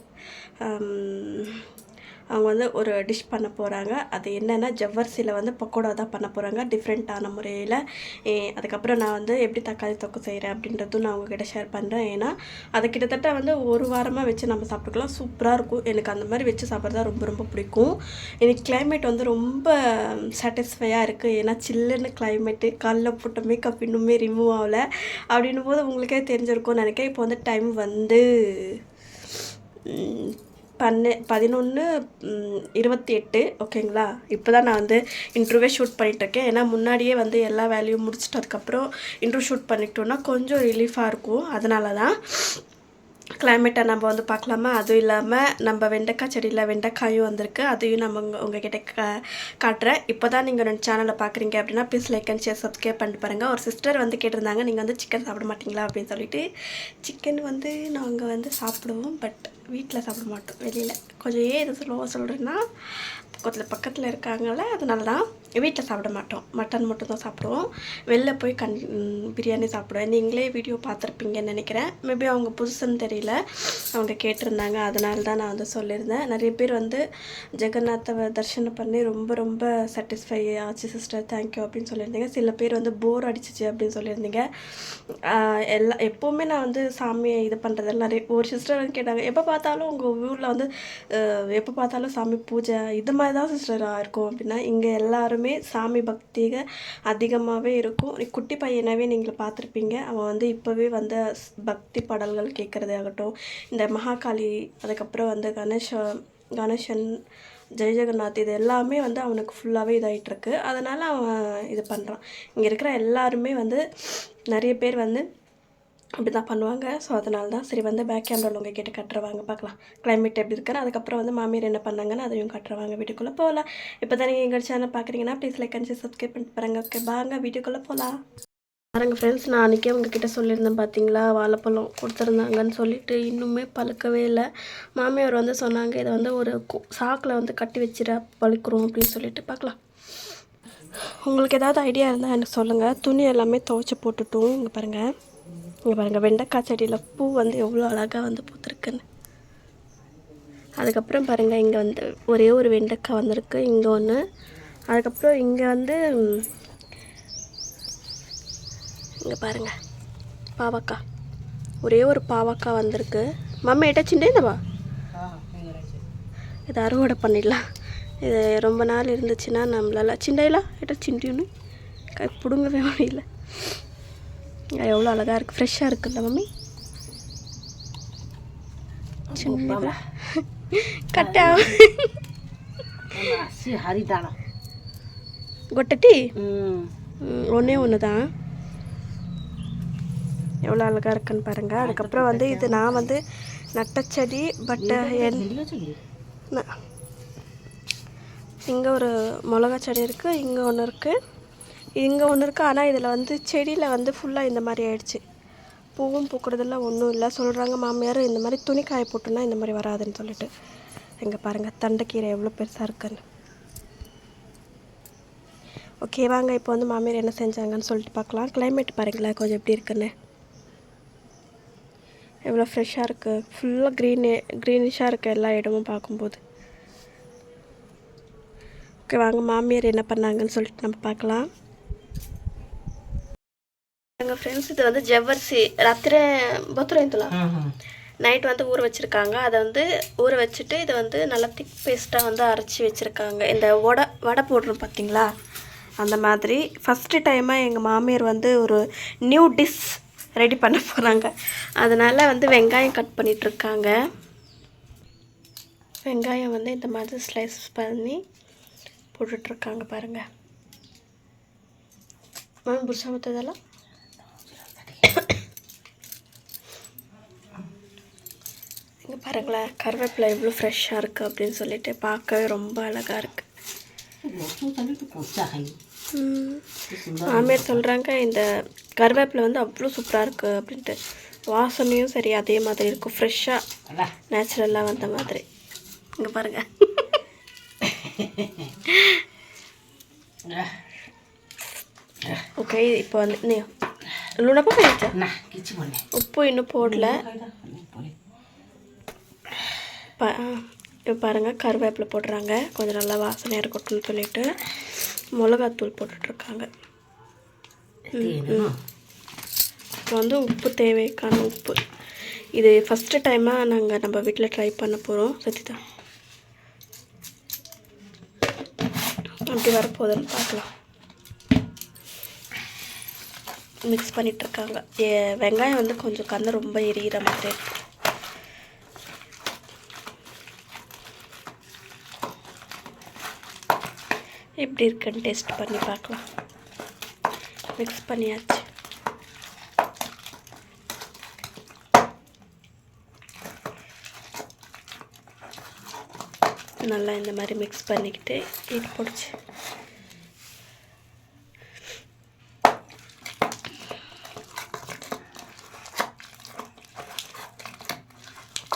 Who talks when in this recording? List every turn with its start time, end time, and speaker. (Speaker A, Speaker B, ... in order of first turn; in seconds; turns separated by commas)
Speaker A: 0.6-1.6, Speaker A: 2.3-28.8, Speaker A: 29.9-42.6, Speaker A: 43.4-56.4, Speaker A: 57.0-62.6, Speaker A: 63.3-77.0, Speaker A: 77.6-107.2, Speaker A: 107.8-113.8, Speaker A: 114.5-115.2, Speaker A: 116.2-128.2, Speaker A: 128.9-139.8, Speaker A: 141.2-145.1, Speaker A: 145.8-149.0, Speaker A: 150.8-154.2, Speaker A: 154.9-156.5, Speaker A: 159.2-159.7, Speaker A: 160.6-161.0, Speaker A: 161.8-164.6, Speaker B: 165.1-166.0, Speaker A: 166.7-167.6, Speaker A: 168.2-171.5, Speaker A: 172.2-173.8, Speaker A: 174.8-176.5, Speaker B: 179.3-180.0, Speaker A: 179.4-182.1, Speaker B: 181.1-181.8, Speaker B: 183.1-184.3, Speaker A: 185.7-186.2, Speaker B: 186.4-186.9, Speaker A: 187.2-188.2, Speaker A: 190.7-193.2, Speaker B: 191.8-193.1, Speaker A: 193.8-195.4, Speaker B: 194.8-196.0, Speaker A: 198.7-201.2, Speaker A: 202.0-205.2, Speaker A: 205.9-210.5, Speaker A: 211.2-213.2, Speaker A: 216.0-220.1, Speaker A: 222.5-226.4, Speaker A: 229.1-231.5, Speaker A: 234.2-237.3, Speaker B: 237.3-237.7, Speaker A: 238.2-245.3, Speaker A: 246.0-253.9, Speaker A: 256.0-258.2, Speaker A: 259.1-260.2, Speaker A: 262.7-263.6, Speaker B: 264.5-265.2, Speaker A: 269.1-273.4, Speaker B: 274.2-275.8, Speaker A: 276.1-281.0, Speaker B: 276.9-277.8, Speaker A: 281.5-283.6, Speaker A: 284.3-285.4, Speaker A: 286.2-287.1, Speaker B: 287.8-288.7, Speaker A: 288.9-289.2, Speaker B: 290.5-290.8, Speaker A: 292.6-293.7, Speaker A: 294.4-295.1, Speaker B: 295.1-296.0, Speaker A: 296.1-297.2, Speaker B: 296.8-298.1, Speaker A: 300.2-304.5, Speaker A: 305.4-306.7, Speaker B: 308.1-308.8, Speaker A: 308.1-308.7, Speaker A: 310.1-311.8, Speaker A: 312.6-315.8, Speaker A: 319.5-320.7, Speaker A: 323.9-327.6, Speaker A: 334.6-336.2, Speaker A: 337.8-338.7, Speaker A: 346.8-349.4